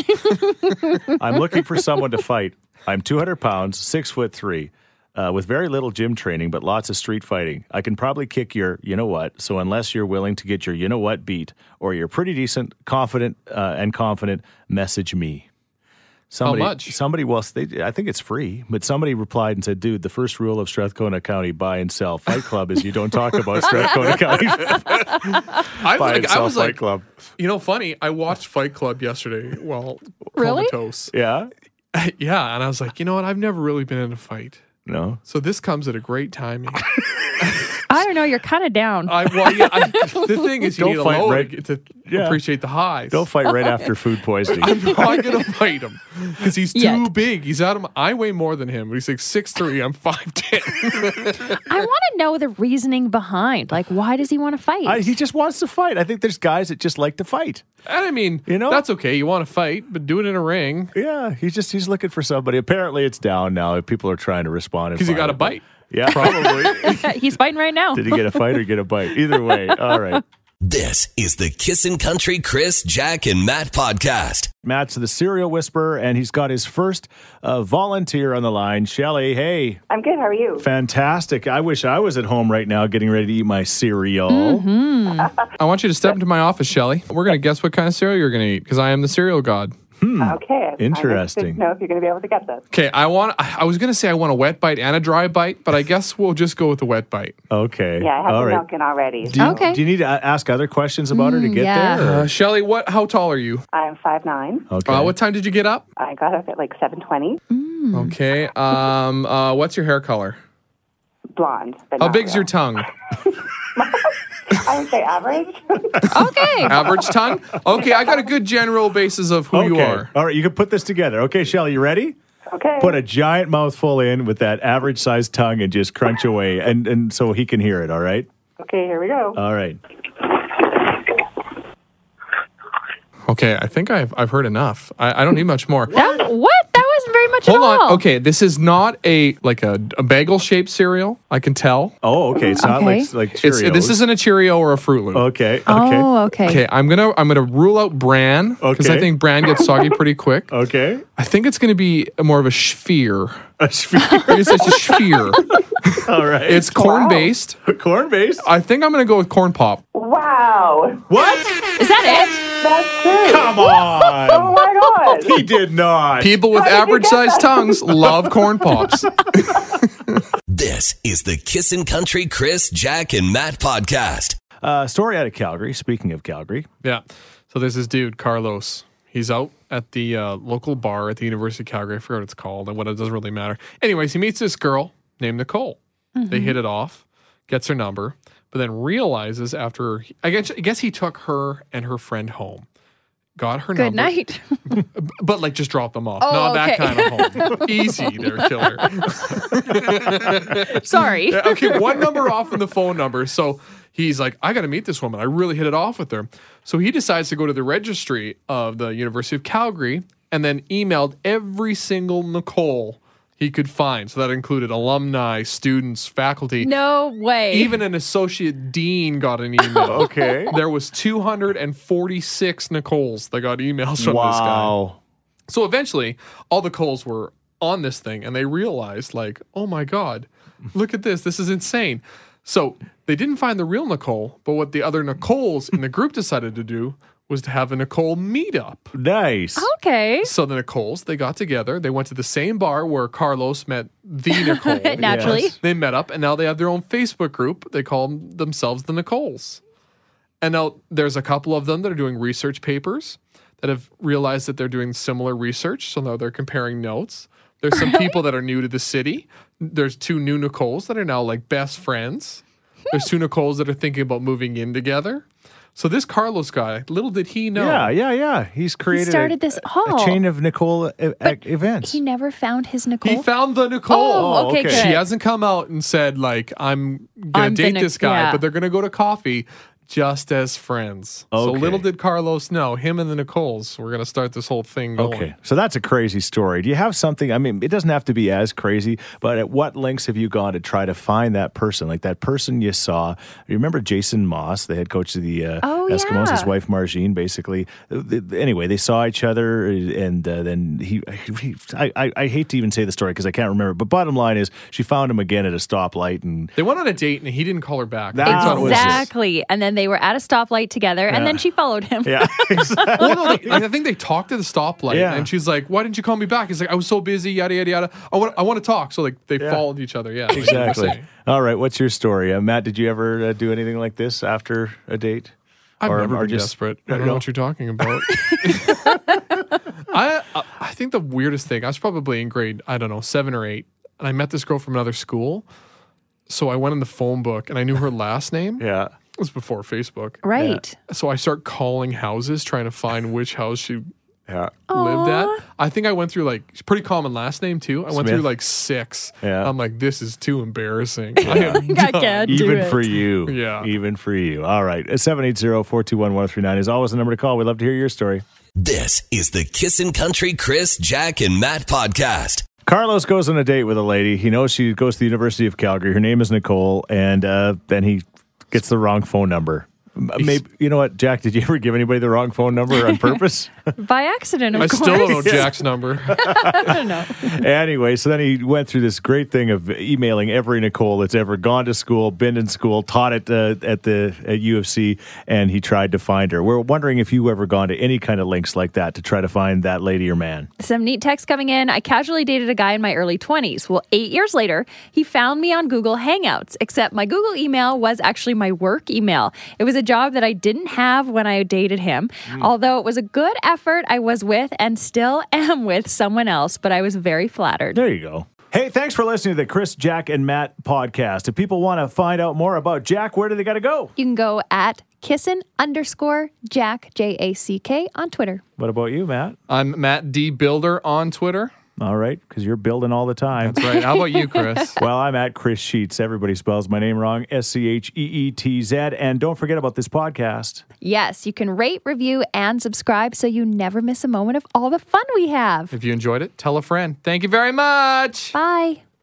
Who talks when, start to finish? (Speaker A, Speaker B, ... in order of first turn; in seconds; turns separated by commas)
Speaker A: 0.1-1.1, Speaker B: 1.1-15.5, Speaker B: 16.3-27.1, Speaker C: 16.4-16.9, Speaker C: 23.5-24.1, Speaker C: 24.7-26.9, Speaker C: 27.4-31.1, Speaker A: 30.4-30.7, Speaker B: 31.1-31.5, Speaker C: 31.9-34.6, Speaker B: 34.9-35.2, Speaker C: 35.3-36.9, Speaker C: 37.4-37.7, Speaker A: 37.9-40.4, Speaker C: 39.1-43.3, Speaker B: 40.7-41.5, Speaker B: 42.0-42.4, Speaker B: 43.1-45.2, Speaker C: 44.6-51.6, Speaker A: 46.7-47.1, Speaker A: 51.5-55.1, Speaker B: 54.9-57.6, Speaker C: 57.9-60.9, Speaker B: 58.5-58.9, Speaker B: 60.9-67.0, Speaker C: 65.0-67.0, Speaker A: 66.8-68.4, Speaker B: 67.9-70.2, Speaker A: 69.4-70.2, Speaker D: 70.6-74.5, Speaker B: 74.6-79.8, Speaker E: 79.9-80.7, Speaker B: 80.6-84.7, Speaker A: 84.3-85.3, Speaker C: 85.6-89.7, Speaker B: 90.0-91.6, Speaker E: 90.2-92.6, Speaker C: 92.7-97.4, Speaker B: 97.5-98.6, Speaker E: 98.0-99.7, Speaker B: 99.2-102.3, Speaker A: 99.4-99.8, Speaker A: 101.1-102.0, Speaker C: 102.0-103.6, Speaker E: 103.7-104.7, Speaker B: 104.7-105.2, Speaker C: 104.9-105.9, Speaker E: 106.0-107.4, Speaker A: 107.5-108.1, Speaker C: 107.9-110.4, Speaker E: 111.4-112.5, Speaker C: 112.0-112.9, Speaker E: 113.2-116.0, Speaker A: 116.1-116.8, Speaker C: 116.6-120.1, Speaker E: 117.8-118.3, Speaker B: 119.5-122.2, Speaker E: 122.5-123.0, Speaker B: 122.8-128.3, Speaker E: 128.6-129.4, Speaker B: 129.3-129.8, Speaker C: 133.3-135.9, Speaker B: 135.9-136.2, Speaker A: 135.9-138.0, Speaker C: 137.4-141.9, Speaker B: 142.0-144.0, Speaker A: 142.6-143.1, Speaker C: 143.4-145.3, Speaker B: 145.1-146.1, Speaker A: 145.7-146.6, Speaker C: 146.4-150.5, Speaker B: 148.6-149.2, Speaker B: 150.5-151.0, Speaker C: 151.2-153.4, Speaker B: 153.6-155.0, Speaker C: 154.3-155.5, Speaker B: 156.0-156.9, Speaker C: 156.4-157.6, Speaker E: 156.7-157.3, Speaker B: 157.6-158.5, Speaker C: 158.4-159.8, Speaker E: 159.9-161.1, Speaker B: 161.1-161.5, Speaker A: 161.8-162.4, Speaker E: 162.5-165.5, Speaker B: 163.2-166.4, Speaker C: 166.2-170.2, Speaker E: 166.5-168.3, Speaker B: 168.0-169.1, Speaker D: 170.5-174.4, Speaker B: 174.6-176.7, Speaker C: 176.8-185.8, Speaker A: 186.2-186.6, Speaker C: 186.3-192.7, Speaker C: 193.4-194.1, Speaker A: 193.8-194.8, Speaker C: 194.7-216.7, Speaker A: 196.2-198.4, Speaker A: 199.0-199.4, Speaker A: 200.5-202.2, Speaker A: 216.6-217.7, Speaker C: 217.5-224.8, Speaker A: 219.6-220.6, Speaker B: 219.9-220.6, Speaker B: 224.0-225.0, Speaker C: 225.5-238.9, Speaker B: 238.9-239.7, Speaker A: 239.6-240.3, Speaker C: 240.2-249.6, Speaker A: 244.3-245.6, Speaker B: 245.0-245.5, Speaker C: 250.4-267.9, Speaker A: 257.7-258.2, Speaker B: 267.5-272.0, Speaker A: 268.9-270.2, Speaker A: 271.2-273.3, Speaker C: 273.0-285.3, Speaker A: 273.9-275.0, Speaker B: 274.1-274.9, Speaker A: 277.3-278.4, Speaker B: 281.3-281.9, Speaker B: 285.0-306.5, Speaker A: 295.6-296.5, Speaker C: 306.6-309.1, Speaker B: 308.1-309.1, Speaker A: 308.2-313.0, Speaker B: 311.1-311.4, Speaker B: 312.0-313.7, Speaker C: 312.8-321.1, Speaker B: 314.9-315.3, Speaker B: 319.4-319.6, Speaker B: 320.3-327.2, Speaker C: 325.8-329.0, Speaker A: 328.1-328.9, Speaker C: 329.9-335.4, Speaker C: 336.3-338.6, Speaker B: 338.6-338.9, Speaker C: 339.2-340.2, Speaker A: 340.2-340.7, Speaker B: 340.4-340.6, Speaker C: 340.8-343.9, Speaker B: 344.3-344.6, Speaker A: 344.7-345.4, Speaker C: 344.7-353.7, Speaker B: 347.9-348.3, Speaker B: 349.2-349.5, Speaker A: 351.2-352.8, Speaker B: 351.2-351.7, Speaker B: 352.3-358.2, Speaker D: 358.6-362.4, Speaker B: 362.6-373.5, Speaker A: 372.9-373.2, Speaker A: 373.8-375.6, Speaker C: 374.5-376.8, Speaker B: 374.6-390.5, Speaker A: 376.1-377.4, Speaker A: 390.6-407.8, Speaker B: 407.7-413.9, Speaker A: 414.0-418.4, Speaker B: 418.6-419.4, Speaker C: 419.5-421.5, Speaker B: 421.8-423.6, Speaker C: 423.4-424.8, Speaker A: 423.6-424.7, Speaker B: 424.8-430.6, Speaker A: 430.8-435.7, Speaker C: 435.7-438.4, Speaker A: 438.3-438.8